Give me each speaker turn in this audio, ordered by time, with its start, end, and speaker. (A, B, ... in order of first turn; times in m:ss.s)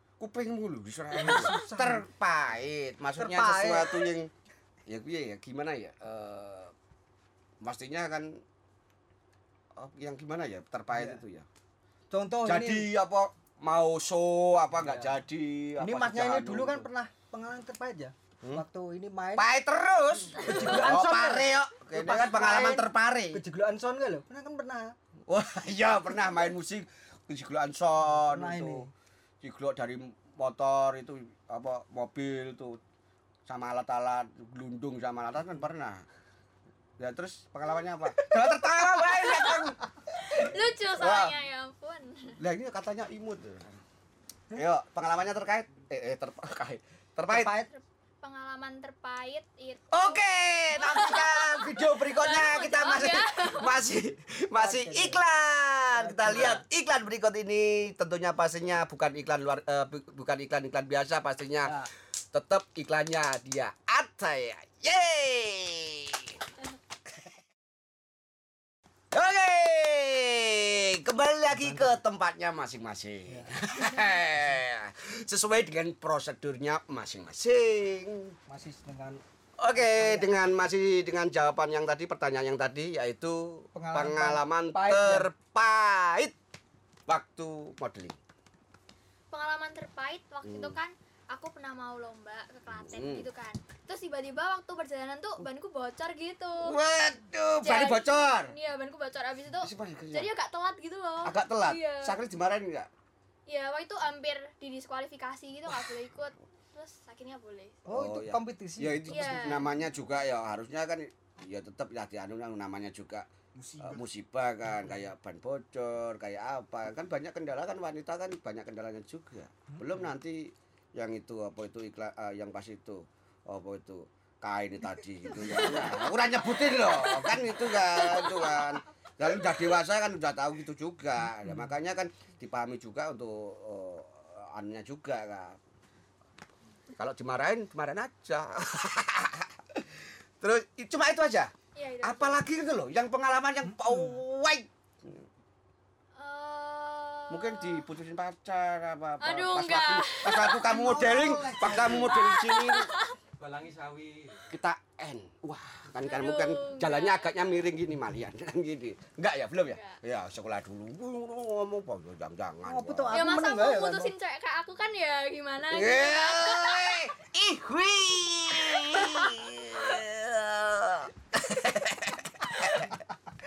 0:00.2-0:04.3 A
0:01.2-0:02.0 B
0:03.2-0:04.0 B
0:04.9-0:06.7 A
0:07.6-0:08.4 A
0:09.8-0:11.4 A
0:10.9-0:11.2 B
0:12.1-0:12.9 B
0:12.4-0:16.9 A
0:14.8-0:15.1 B
0:15.8-0:19.4 B
0:19.4-0:23.4 A
0:20.3-0:24.9 B
0:25.3-0:28.9 A
0:28.0-0:28.9 B
0:29.4-0:32.8 A
0:33.4-0:36.0 A
0:37.0-0:41.4 A
0:39.0-0:39.2 B
0:39.3-0:39.6 C
0:40.2-0:42.4 C
0:42.4-0:43.8 A
0:44.6-0:47.5 A
0:47.3-0:47.7 B
0:47.5-0:53.8 C
0:49.9-1:06.4 A
0:54.6-0:55.2 B
0:55.9-0:56.6 B
1:01.6-1:01.9 B
1:09.1-1:18.3 A
1:11.5-1:12.0 B
1:13.3-1:13.6 B
1:18.5-1:19.2 B
1:19.6-1:26.3 A
1:19.7-1:20.4 B
1:23.7-1:25.3 B
1:27.1-1:28.2 A
1:29.3-1:36.8 C
1:30.4-1:30.8 A
1:32.7-1:33.3 A
1:36.6-1:38.5 A
1:37.6-1:42.2 C
1:39.6-1:40.3 A
1:41.2-1:42.9 A
1:43.5-1:47.8 C
1:45.7-1:46.1 A
1:47.8-1:49.6 B
1:47.9-2:15.6 A
1:49.1-1:49.8 C
1:53.6-1:53.9 B
2:06.8-2:08.8 C
2:16.9-2:21.5 A
2:21.7-2:22.4 C
2:22.0-2:25.2 A
2:23.7-2:24.2 B
2:26.2-2:27.8 C
2:27.3-2:32.9 A
2:29.2-2:33.2 C
2:30.8-2:32.1 B
2:33.4-2:34.4 B
2:34.5-2:43.3 A
2:36.0-2:37.6 C
2:39.7-2:40.0 C
2:42.6-2:44.1 B
2:43.1-2:47.1 C
2:45.6-2:53.0 A
2:48.9-2:49.2 C